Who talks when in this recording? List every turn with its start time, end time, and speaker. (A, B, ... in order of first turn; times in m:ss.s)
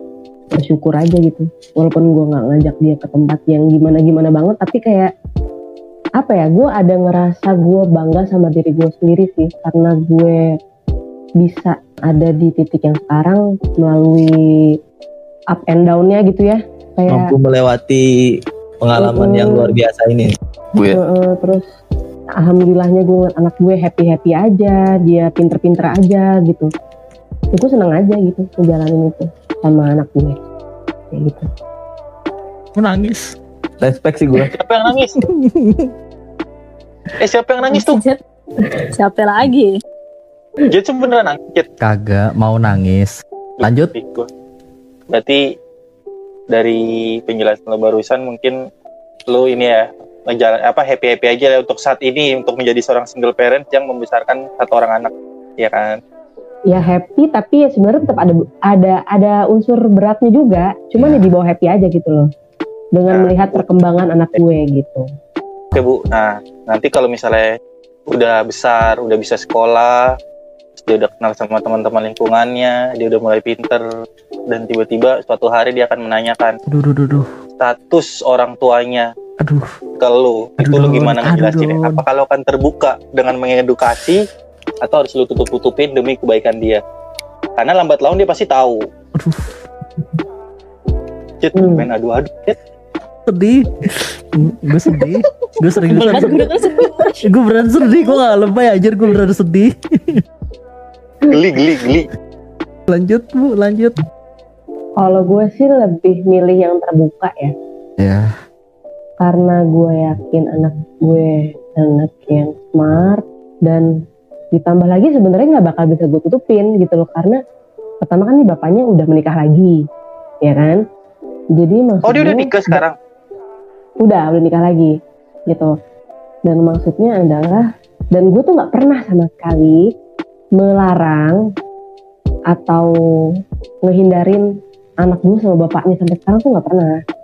0:00.5-0:05.1 A
0:06.2-0:10.4 A
0:11.4-0:14.8 A
0:15.5-0:17.3 A
0:17.1-0:18.1 B
0:18.8-0:21.0 B
0:19.0-0:19.8 A
0:20.9-0:21.6 A
0:22.4-0:26.7 A
0:27.5-0:30.4 A
0:31.1-0:31.5 A
0:32.8-0:33.3 C
0:33.8-0:34.5 B
0:34.5-0:35.2 D
0:35.2-0:35.9 C
0:37.2-0:38.0 D
0:37.7-0:39.7 E
0:40.6-0:41.7 D
0:41.8-0:43.9 C
0:43.6-0:44.3 D
0:45.1-0:45.4 D
0:46.5-0:48.6 D
0:49.3-0:56.0 D
0:56.7-1:02.3 A
1:01.0-1:01.3 C
1:02.9-1:05.0 A
1:03.1-1:03.6 D
1:05.7-1:07.5 D
1:08.1-1:10.1 D
1:10.8-1:13.8 D
1:14.5-1:16.6 D
1:16.7-1:17.3 C
1:17.6-1:19.1 D
1:19.4-1:19.7 C
1:20.0-1:24.2 D
1:20.6-1:22.0 C
1:24.8-1:26.8 D
1:27.6-1:28.8 D
1:29.2-1:29.6 C
1:31.4-1:32.6 D
1:31.5-1:31.9 A
1:33.3-1:36.6 C
1:35.4-1:37.3 E
1:37.2-1:40.2 C
1:41.3-1:42.1 D
1:42.9-1:43.9 C
1:45.0-1:47.5 A
1:48.0-1:48.3 C
1:49.2-1:54.0 A
1:54.5-1:57.4 A
1:58.0-1:59.8 A
2:00.4-2:00.8 A
2:01.5-2:02.8 A
2:02.0-2:02.9 D
2:04.0-2:05.0 A
2:06.4-2:09.9 A
2:10.6-2:11.4 A
2:12.5-2:12.9 A
2:13.8-2:14.5 A
2:15.0-2:17.0 A